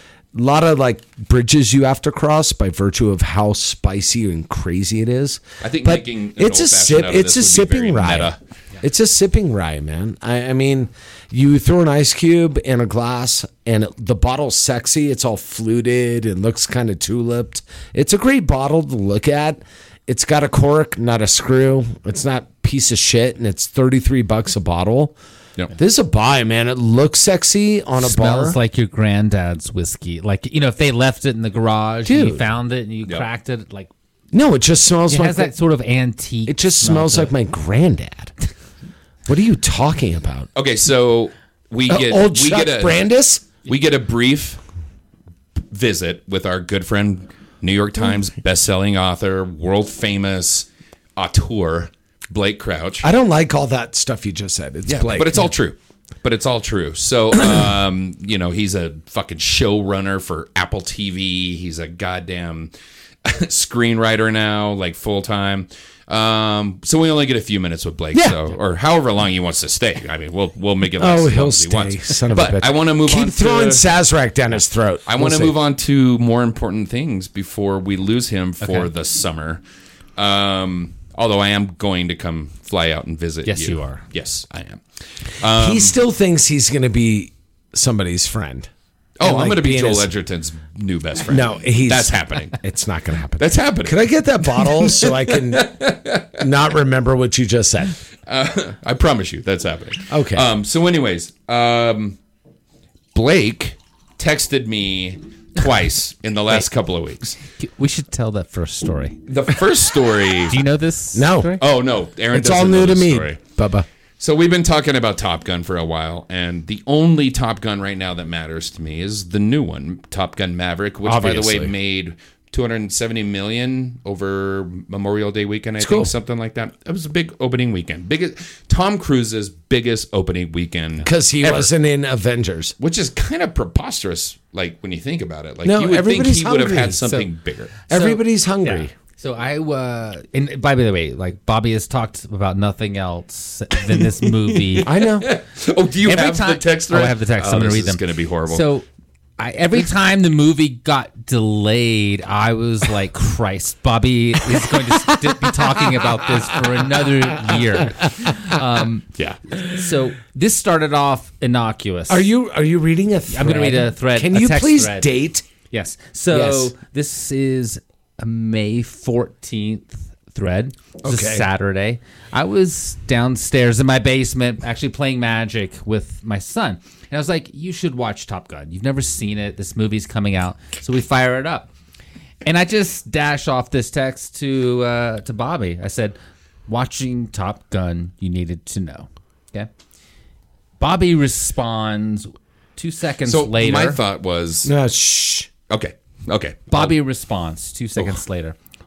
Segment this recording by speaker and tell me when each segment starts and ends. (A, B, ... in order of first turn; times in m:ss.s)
0:00.3-0:25.2 A
0:05.6-0:08.4 B
0:25.7-0:28.6 A
0:28.0-0:33.9 C
0:32.0-0:32.4 A
0:34.3-0:35.5 A
0:35.1-0:37.3 C
0:36.5-0:38.3 A
0:39.3-0:40.5 A
0:40.5-0:43.0 B
0:41.9-0:43.5 A
0:43.6-0:44.6 B
0:45.7-0:53.1 B
0:53.0-0:55.4 A
0:54.9-1:02.7 B
1:03.2-1:13.8 B
1:08.1-1:08.4 A
1:11.0-1:15.6 A
1:15.0-1:19.6 B
1:18.6-1:18.9 C
1:20.2-1:25.9 B
1:23.4-1:24.0 C
1:25.5-1:30.1 A
1:29.2-1:32.6 B
1:31.3-1:38.0 A
1:33.4-1:36.4 B
1:38.3-1:42.2 B
1:40.1-1:40.5 A
1:43.1-1:47.4 B
1:47.6-1:49.2 C
1:49.3-1:50.6 B
1:50.5-1:51.6 C
1:51.1-1:51.6 A
1:51.6-1:53.4 B
1:52.3-1:53.8 A
1:54.2-2:11.7 B
2:01.0-2:01.7 A
2:05.8-2:06.1 A
2:11.0-2:12.7 A
2:12.8-2:17.7 B
2:15.6-2:17.0 A
2:17.9-2:24.9 C
2:17.9-2:18.9 A
2:24.5-2:28.7 B
2:24.8-2:25.3 A
2:26.0-2:28.8 C
2:29.4-2:42.3 C
2:42.1-2:45.4 A
2:43.3-2:45.1 C
2:45.7-3:01.7 C
2:46.3-2:46.7 A
2:51.0-2:51.4 A
3:02.4-3:09.7 C
3:10.8-3:14.0 C
3:13.2-3:14.7 B
3:14.6-3:15.5 A
3:15.7-3:17.0 B
3:16.7-3:18.6 C